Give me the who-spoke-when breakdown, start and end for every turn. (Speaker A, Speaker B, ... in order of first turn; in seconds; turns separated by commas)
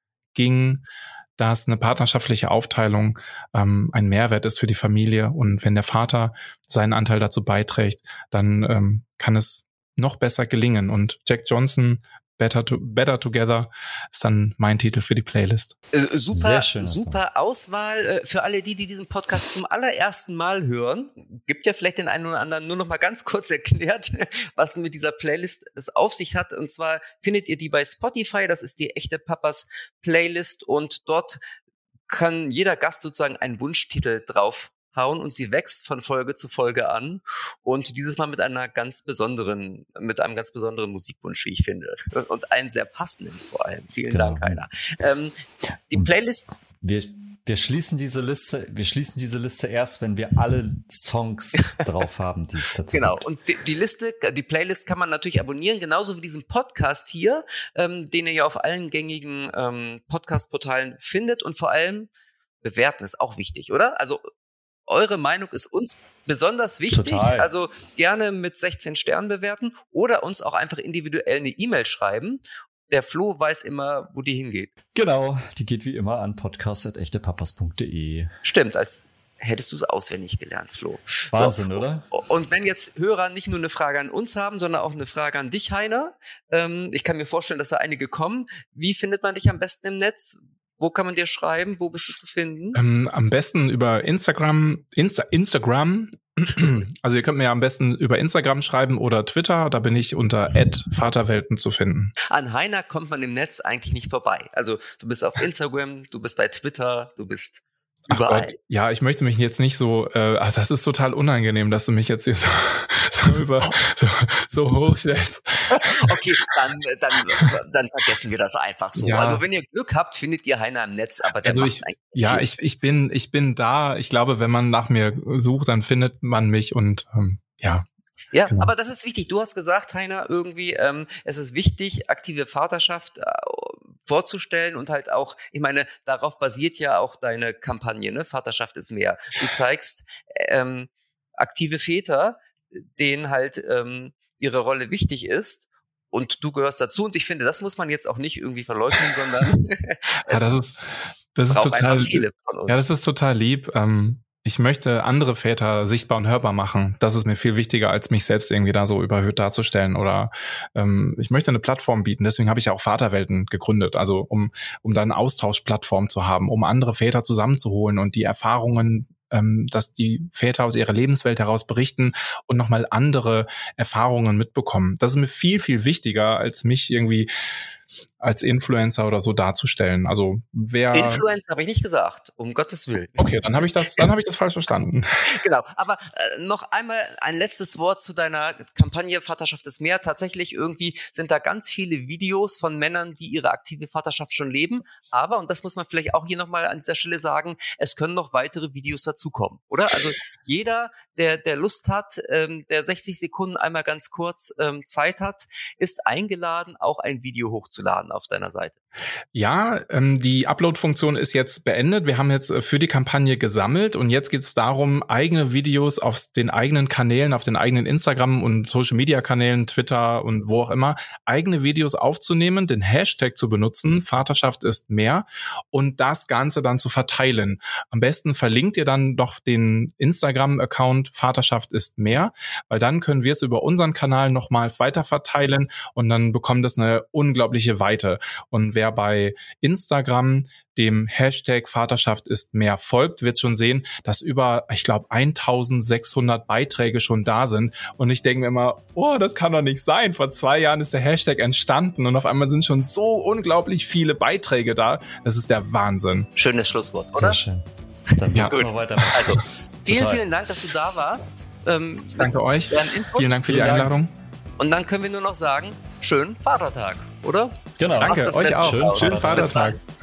Speaker A: 0.3-0.8, Speaker A: 1.4-15.7, Speaker B: 15.9-31.4, Speaker C: 16.3-17.2, Speaker B: 32.1-45.4, Speaker C: 44.1-44.6, Speaker B: 45.9-46.5, Speaker C: 46.8-53.2, Speaker B: 52.9-62.1, Speaker B: 62.6-64.2, Speaker B: 64.9-74.7, Speaker C: 66.9-67.5, Speaker C: 74.9-78.3, Speaker B: 78.4-92.8, Speaker C: 81.3-82.1, Speaker A: 92.7-102.1, Speaker B: 102.3-108.5, Speaker A: 108.1-116.3, Speaker B: 115.7-122.5, Speaker A: 119.0-119.4, Speaker A: 121.4-127.9, Speaker B: 128.3-150.5, Speaker A: 150.3-177.3, Speaker B: 151.5-152.9, Speaker A: 178.2-181.2, Speaker B: 180.9-183.3, Speaker A: 183.2-185.3, Speaker B: 185.3-208.8, Speaker A: 209.3-256.3, Speaker B: 256.4-257.4, Speaker C: 257.1-260.2, Speaker A: 258.3-259.3, Speaker B: 258.4-263.8, Speaker A: 262.1-264.1, Speaker C: 263.5-263.9, Speaker B: 264.6-269.8, Speaker C: 267.8-269.6, Speaker A: 268.0-269.8